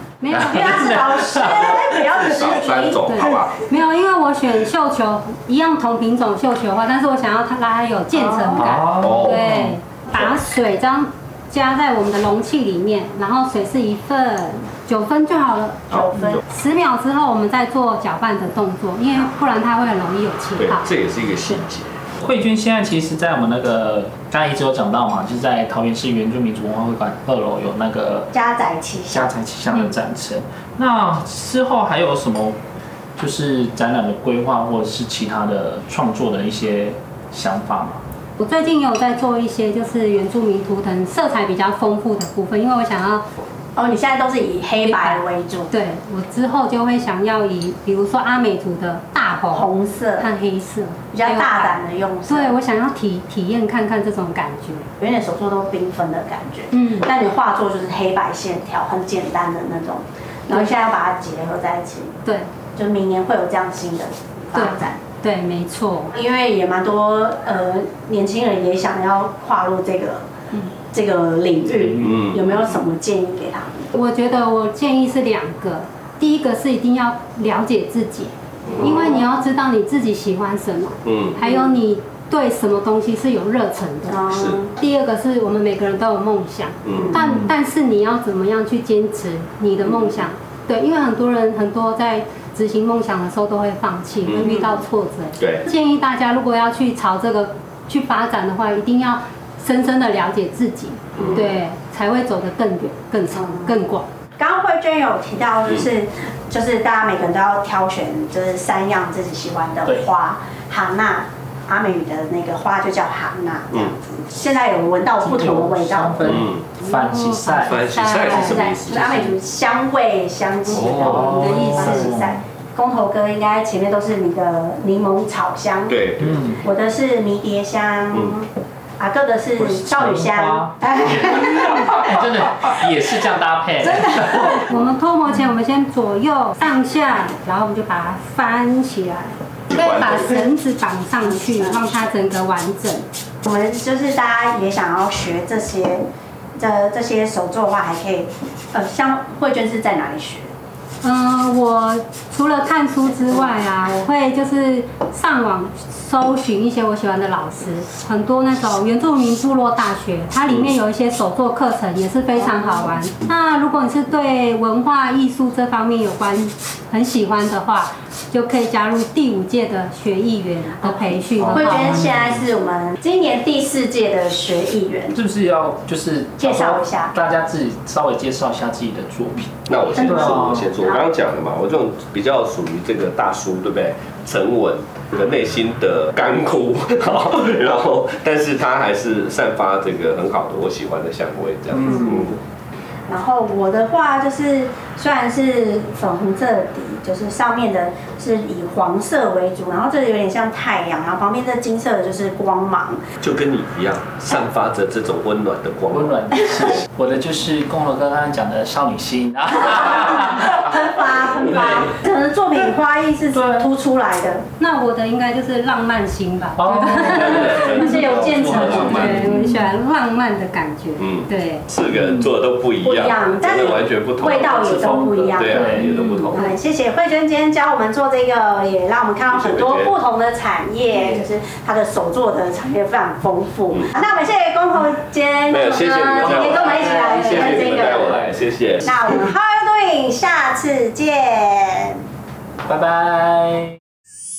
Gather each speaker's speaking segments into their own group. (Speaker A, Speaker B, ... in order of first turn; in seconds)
Speaker A: 0.2-1.0, 3.1-20.9, 38.4-43.2, 44.8-51.8, 52.3-54.9, 56.7-57.1, 60.5-60.8, 64.5-66.2, 73.9-104.1, 116.8-118.7, 120.7-122.1, 134.6-143.1, 151.0-172.0, 214.6-221.7
Speaker B: 0.3-2.4, 8.6-9.7, 22.2-28.3, 29.1-32.6, 33.2-38.0, 71.8-72.5, 87.2-87.5, 115.2-117.9, 120.9-122.4, 126.2-126.6, 129.6-134.6, 171.4-172.4, 175.2-180.7, 205.9-210.7, 211.3-211.9, 213.3-213.7, 216.6-219.7, 224.3-226.2, 230.9-231.2, 236.3-237.2, 242.7-243.8
Speaker C: 0.4-3.1, 8.1-8.7, 15.9-16.4, 28.3-29.3, 43.8-45.7, 49.5-50.3, 51.1-52.6, 55.0-62.1, 62.8-65.0, 66.1-70.2, 70.9-73.9, 78.8-79.2, 81.4-81.8, 84.1-84.7, 103.3-103.8, 104.4-116.4, 118.4-132.1, 133.8-134.7, 141.2-142.0, 143.4-150.5, 162.4-162.6, 170.8-175.2, 176.4-177.2, 179.9-181.1, 191.8-192.3, 193.1-203.0, 210.0-214.5, 217.8-219.0, 222.8-238.3, 238.8-242.0
Speaker D: 1.6-3.6, 9.0-9.6, 15.9-16.4, 20.6-22.1, 72.0-72.5, 78.7-79.2, 81.0-81.4, 84.3-84.6, 86.8-87.2, 94.2-94.7, 95.4-95.7, 101.2-101.5, 116.2-116.7, 117.6-119.3, 120.7-121.2, 125.9-126.4, 139.7-140.2, 179.7-192.4, 203.2-206.4, 217.2-219.2, 221.0-224.6, 225.3-226.5, 229.3-229.9, 235.5-239.1